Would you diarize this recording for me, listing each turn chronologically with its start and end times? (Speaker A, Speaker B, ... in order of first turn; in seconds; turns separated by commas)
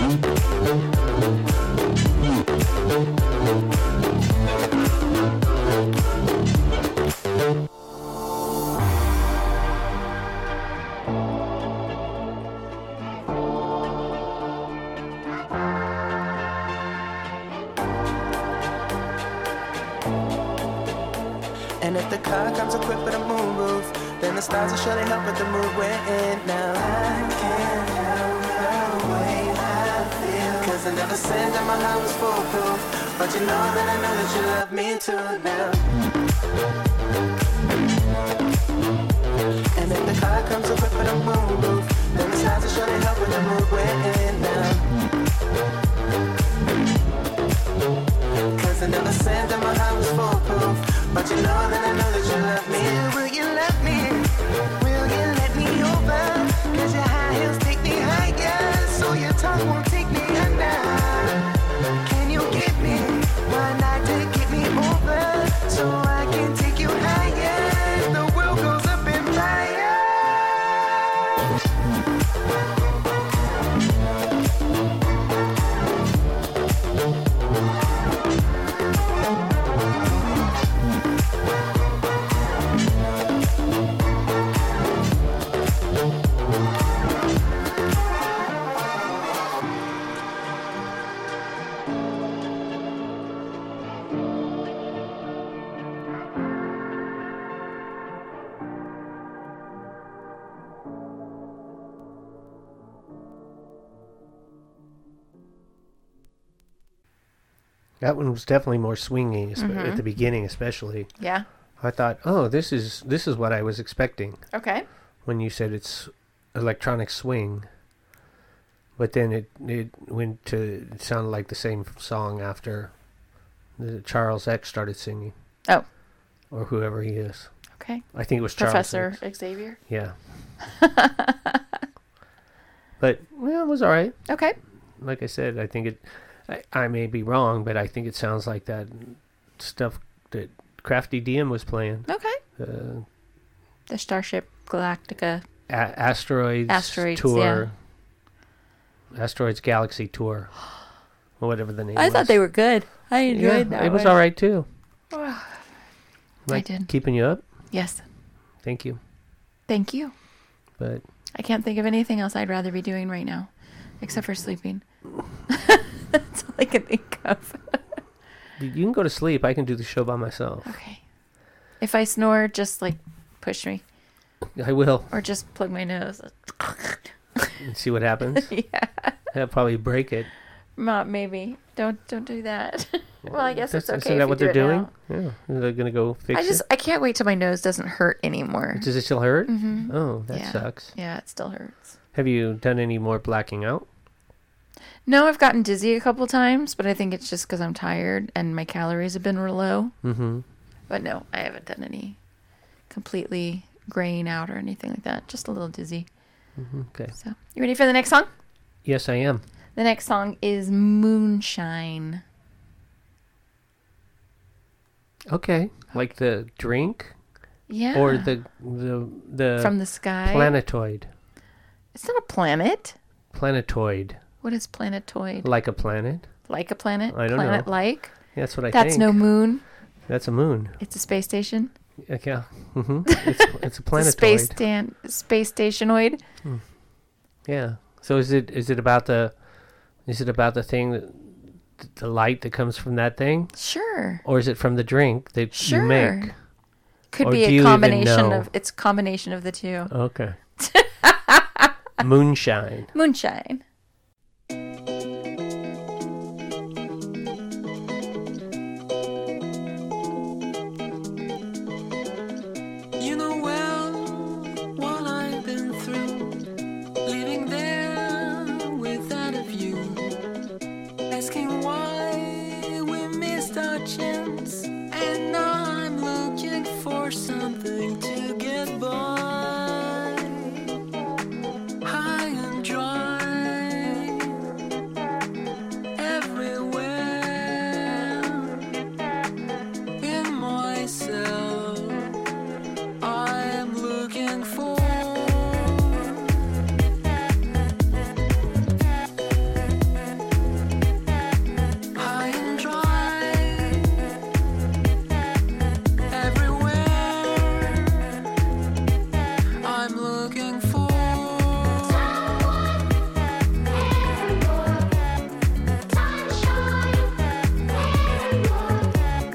Speaker A: 21.8-35.9, Speaker A: 39.7-44.9, Speaker A: 48.5-61.5, Speaker A: 62.0-70.5, Speaker B: 108.0-111.1, Speaker C: 109.6-110.0, Speaker C: 111.2-111.5, Speaker B: 111.8-114.4, Speaker C: 114.5-114.8, Speaker B: 115.2-117.7, Speaker B: 119.0-122.9, Speaker B: 123.8-125.3, Speaker B: 126.5-127.5, Speaker C: 127.8-129.8, Speaker B: 128.1-129.2, Speaker B: 129.9-130.2, Speaker C: 130.6-131.8, Speaker B: 133.0-134.2, Speaker C: 134.3-134.6, Speaker B: 135.0-143.1, Speaker C: 142.1-142.4, Speaker C: 143.9-145.4, Speaker B: 145.7-147.7, Speaker C: 146.7-147.7, Speaker B: 149.1-150.5, Speaker B: 151.4-152.3, Speaker C: 151.9-154.2, Speaker B: 153.3-154.7, Speaker C: 155.1-155.6, Speaker B: 156.4-157.4, Speaker C: 156.5-156.9, Speaker C: 157.7-158.0, Speaker B: 158.6-159.0, Speaker C: 159.7-160.1, Speaker B: 160.8-161.0, Speaker C: 161.3-163.5, Speaker C: 164.0-164.8, Speaker C: 165.5-167.8, Speaker B: 168.6-170.7, Speaker C: 170.6-171.0, Speaker C: 171.8-173.8, Speaker B: 174.6-175.1, Speaker C: 175.1-177.5, Speaker B: 177.6-178.5, Speaker C: 178.3-179.2, Speaker B: 179.3-180.3, Speaker C: 180.8-184.9, Speaker B: 183.5-186.6, Speaker C: 186.3-188.9, Speaker B: 188.7-190.9, Speaker C: 189.4-191.9, Speaker B: 192.1-193.9, Speaker C: 195.1-199.9, Speaker B: 200.0-200.4, Speaker C: 200.9-202.2, Speaker C: 202.9-206.1, Speaker B: 206.6-207.1, Speaker C: 207.2-208.3, Speaker B: 208.8-209.4, Speaker C: 209.8-212.2, Speaker B: 215.3-217.1, Speaker C: 217.7-218.3, Speaker B: 217.9-221.1, Speaker C: 219.6-220.5, Speaker C: 221.9-222.9, Speaker B: 223.3-224.2, Speaker C: 224.4-225.5, Speaker B: 225.4-226.3, Speaker C: 226.5-228.1, Speaker B: 227.1-227.7, Speaker B: 228.3-229.2, Speaker C: 228.7-229.6, Speaker B: 230.1-230.8, Speaker C: 230.8-231.7, Speaker B: 232.1-234.6, Speaker C: 233.1-236.2, Speaker B: 237.4-239.3, Speaker B: 240.0-243.5, Speaker C: 243.6-244.2, Speaker B: 244.2-246.3, Speaker C: 245.5-246.3, Speaker C: 247.1-249.9, Speaker B: 247.2-248.5, Speaker B: 249.9-250.4, Speaker C: 250.6-251.7, Speaker B: 252.0-252.9, Speaker C: 252.9-253.6, Speaker D: 263.0-266.4, Speaker D: 267.0-270.2, Speaker D: 271.1-280.8, Speaker D: 281.8-284.4, Speaker D: 285.9-288.7, Speaker D: 290.0-292.2, Speaker D: 293.0-296.4, Speaker D: 301.9-304.1, Speaker D: 306.1-308.2, Speaker D: 309.6-312.7